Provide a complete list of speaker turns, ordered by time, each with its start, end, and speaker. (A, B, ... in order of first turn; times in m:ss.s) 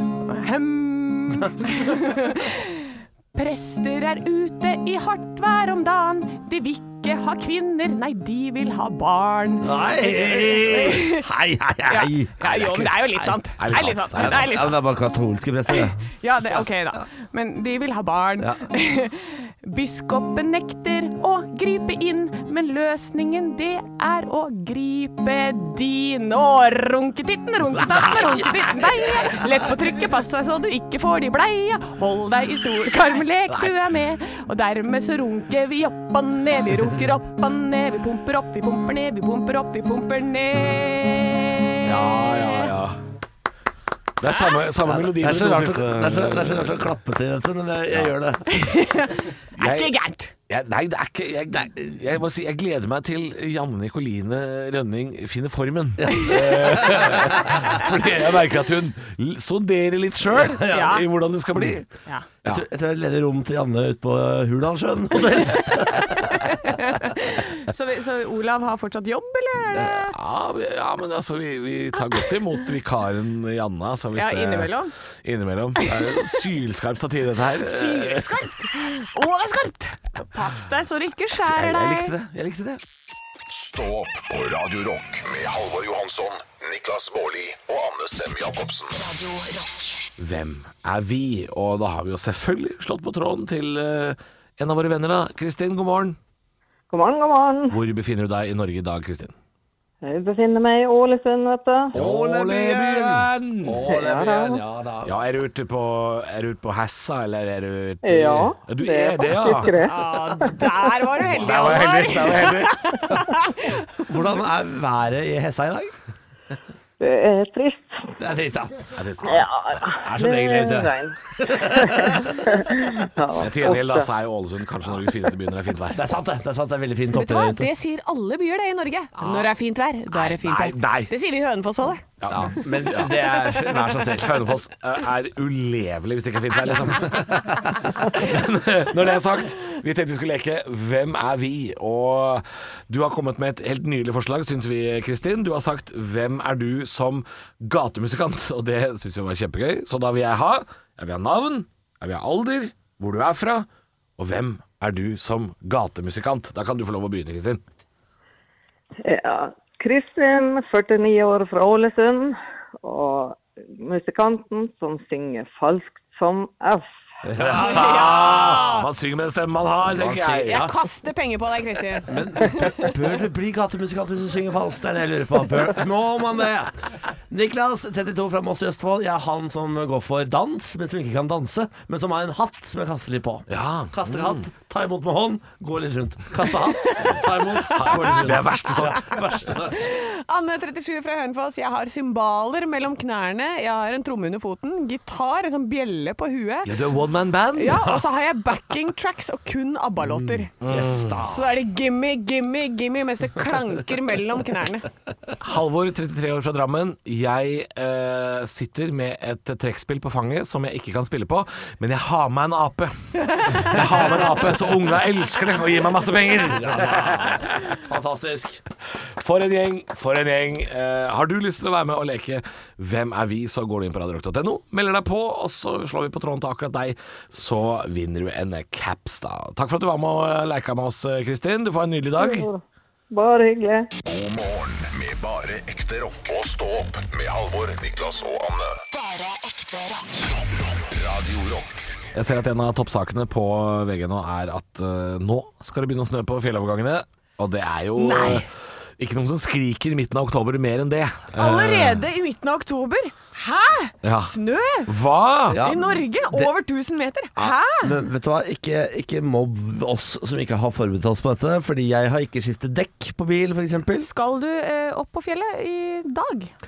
0:00.2-0:11.2 A
0:09.6-0:13.4 B
0:11.9-0:14.8 A
0:13.6-0:14.7 C
0:14.1-0:16.6 B
0:15.7-0:42.7 A
0:27.9-0:28.6 B
0:33.5-0:33.8 C
0:41.8-0:43.0 C
0:44.2-0:46.8 C
0:44.8-0:48.5 B
0:48.5-0:50.3 A
0:49.6-0:49.9 C
0:50.5-1:01.9 C
0:56.0-0:57.6 B
0:56.1-0:56.4 A
1:00.3-1:01.0 B
1:00.7-1:01.0 A
1:02.5-1:06.3 B
1:06.0-1:10.1 A
1:09.7-1:18.2 C
1:14.1-1:14.9 A
1:15.8-1:16.4 A
1:17.6-1:22.1 A
1:21.4-1:22.8 C
1:23.5-1:29.0 D
1:28.9-1:30.1 E
1:30.2-1:36.2 C
1:36.9-1:37.8 F
1:37.7-1:39.3 C
1:40.0-1:41.9 F
1:41.9-1:43.9 C
1:41.9-1:45.2 B
1:43.9-1:44.6 F
1:45.0-1:49.8 C
1:48.0-1:50.9 F
1:49.8-1:54.0 A
1:51.2-1:53.0 C
1:54.1-1:55.9 B
1:57.0-1:58.1 F
1:58.2-1:58.9 B
1:58.9-1:59.9 C
1:59.2-2:04.1 F
2:00.0-2:02.3 B
2:03.4-2:06.0 C
2:05.9-2:07.6 B
2:07.1-2:12.0 A
2:10.1-2:11.1 C
2:12.2-2:33.7 C
2:12.3-2:14.4 B
2:17.0-2:17.5 B
2:34.2-2:37.6 C
2:39.0-2:46.9 F
2:47.2-2:48.6 B
2:47.4-2:50.7 C
2:47.5-2:48.9 A
2:49.8-2:50.8 B
2:50.5-2:52.9 A
2:52.0-3:09.9 B
3:03.5-3:04.5 C
3:07.0-3:09.2 C
3:07.9-3:08.2 A
3:09.6-3:16.8 A
3:16.6-3:18.0 C
3:17.5-3:24.9 A
3:20.6-3:21.5 C
3:20.7-3:21.0 B
3:25.4-3:37.8 C
3:36.4-3:38.6 B
3:39.2-3:52.5 C
3:52.2-3:53.9 F
3:54.0-3:58.8 D
3:58.9-4:00.4 E
4:00.8-4:01.9 D
4:02.1-4:12.0 C
4:08.0-4:08.4 A
4:08.0-4:08.3 B
4:11.4-4:14.9 A
4:14.0-4:14.3 C
4:14.8-4:15.6 C
4:15.5-4:16.5 B
4:15.6-4:17.9 A
4:17.4-4:24.1 B
4:24.0-4:26.5 A